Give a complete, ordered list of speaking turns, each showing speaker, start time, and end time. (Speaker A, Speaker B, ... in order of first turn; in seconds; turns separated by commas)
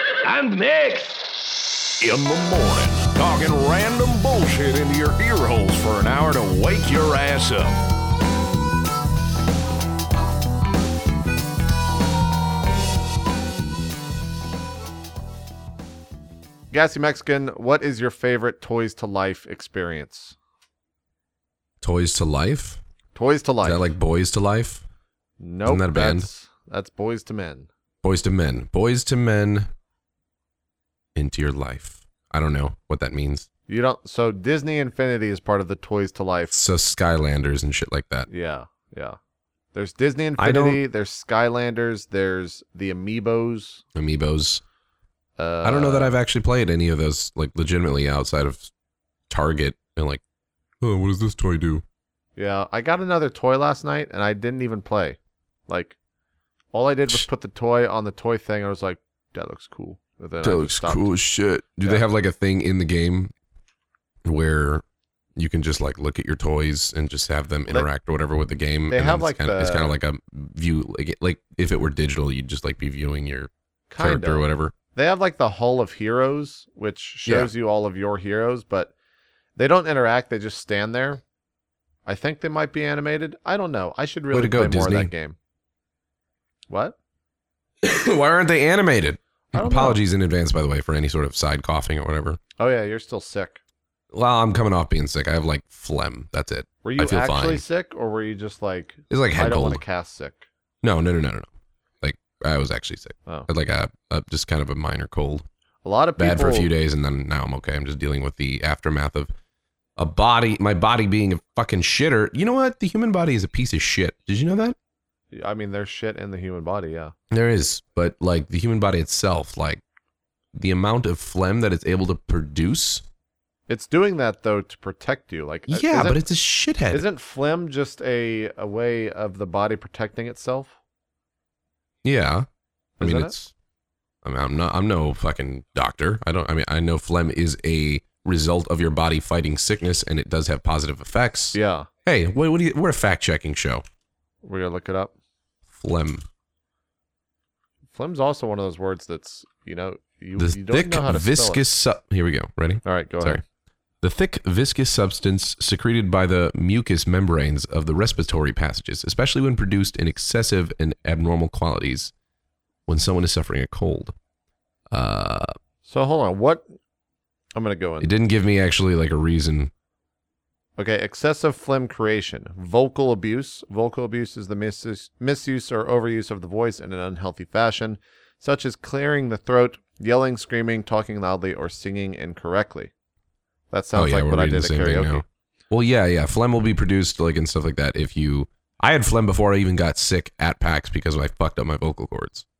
Speaker A: 0.2-1.2, Speaker A: 2.0-7.8, Speaker B: 16.7-20.4, Speaker C: 21.8-22.8, Speaker B: 23.1-23.9, Speaker C: 23.6-24.8, Speaker B: 25.4-27.7, Speaker C: 25.6-26.3, Speaker C: 28.0-29.7, Speaker C: 31.1-33.5, Speaker B: 33.7-36.6, Speaker C: 36.5-38.3, Speaker B: 38.3-39.2, Speaker B: 39.7-43.8, Speaker C: 40.4-40.8, Speaker C: 43.9-44.6, Speaker B: 45.4-46.2, Speaker C: 45.6-48.7, Speaker C: 49.3-50.2, Speaker C: 50.8-51.8, Speaker B: 52.4-56.0, Speaker B: 56.7-61.1, Speaker C: 60.4-63.3, Speaker C: 64.2-64.8, Speaker C: 65.3-74.7, Speaker B: 68.9-70.0, Speaker B: 73.9-78.9, Speaker C: 77.2-77.5, Speaker B: 79.6-81.2, Speaker B: 82.0-85.3, Speaker C: 84.3-85.1, Speaker B: 86.7-87.0, Speaker C: 87.8-92.4, Speaker B: 89.5-90.0, Speaker B: 92.6-93.6, Speaker C: 94.1-97.6, Speaker B: 96.8-100.4, Speaker C: 99.1-99.8, Speaker C: 100.8-101.5, Speaker C: 102.0-105.4, Speaker B: 105.8-106.7, Speaker C: 106.2-109.3, Speaker C: 110.0-114.8, Speaker B: 115.3-117.1, Speaker C: 117.3-119.8, Speaker C: 120.5-123.0, Speaker B: 123.7-126.2, Speaker C: 125.7-127.0, Speaker B: 126.9-130.8, Speaker C: 132.0-132.5, Speaker B: 133.0-133.3, Speaker C: 133.0-133.5, Speaker C: 134.2-143.8, Speaker B: 141.5-141.9, Speaker B: 144.4-145.1, Speaker C: 145.7-146.2, Speaker B: 147.9-151.6, Speaker C: 150.4-153.4, Speaker B: 152.8-153.4, Speaker C: 154.0-162.1, Speaker C: 162.9-164.1, Speaker C: 164.9-165.5, Speaker B: 165.8-166.7, Speaker B: 167.6-168.1, Speaker C: 168.0-169.7, Speaker B: 170.8-182.9, Speaker B: 183.7-185.2, Speaker C: 183.9-192.4